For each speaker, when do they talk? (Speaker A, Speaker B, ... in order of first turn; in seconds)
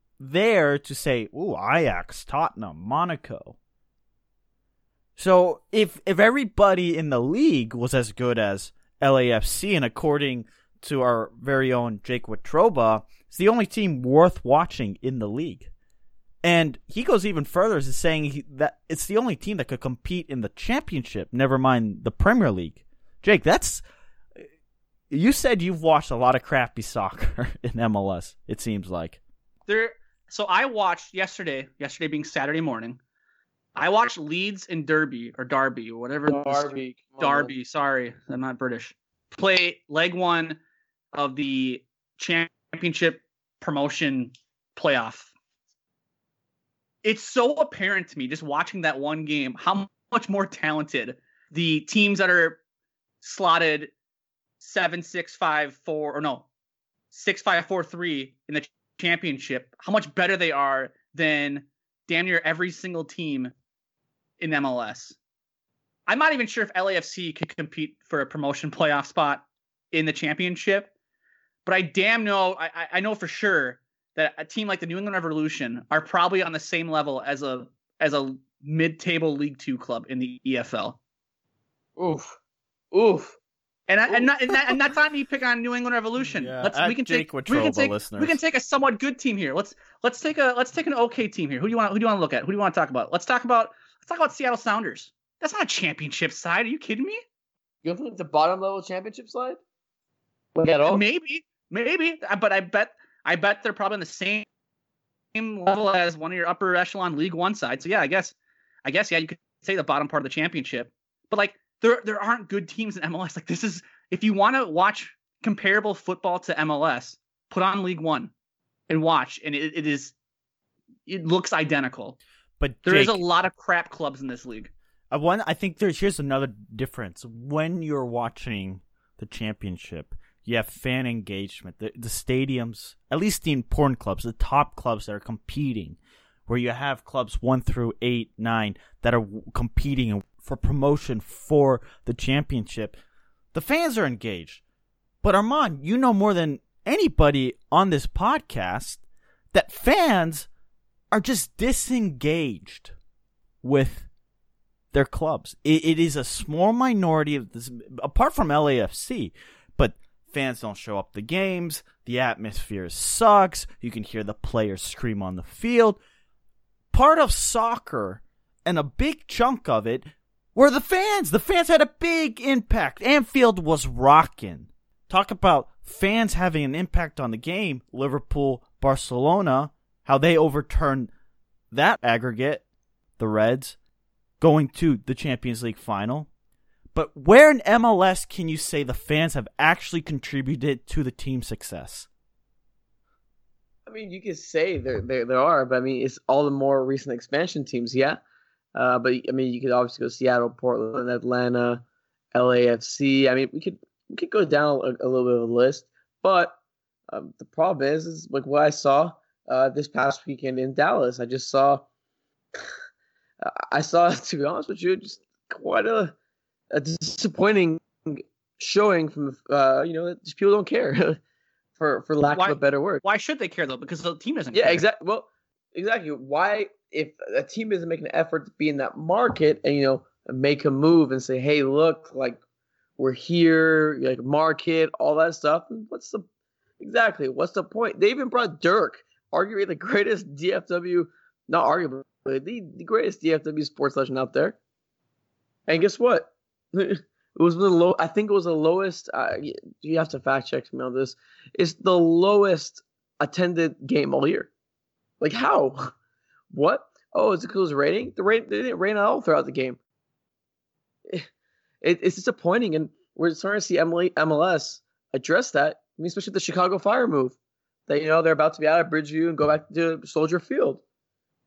Speaker A: 0.2-3.6, 5.2-15.7, 16.4-23.8, 25.1-29.2, 86.2-88.4, 122.6-123.2, 125.1-143.0, 143.5-144.6, 145.2-149.0, 149.5-150.5, 151.1-152.9, 153.6-154.1, 154.9-166.0, 166.9-181.1, 181.7-182.6, 183.2-183.8, 184.4-186.3, 186.9-192.1
Speaker B: 29.7-33.0, 33.8-40.6, 41.1-45.3, 47.0-52.6, 53.2-53.9, 54.6-56.5, 57.1-63.5, 64.4-65.2, 66.1-70.9, 71.7-81.0, 83.9-97.2, 100.9-104.5, 105.3-118.3, 118.9-120.1, 121.1-122.2, 122.8-124.7, 222.3-224.8
Speaker C: 36.3-37.5, 82.0-82.4, 82.9-83.4, 97.8-99.6, 100.5-101.0, 193.9-198.2, 198.8-201.8, 202.3-206.6, 207.1-211.8, 213.4-216.2, 216.7-221.2, 221.8-223.0, 224.5-232.4, 233.0-236.3, 236.8-244.6, 245.7-254.5, 255.2-255.9, 256.5-259.8, 261.8-267.4, 267.9-270.8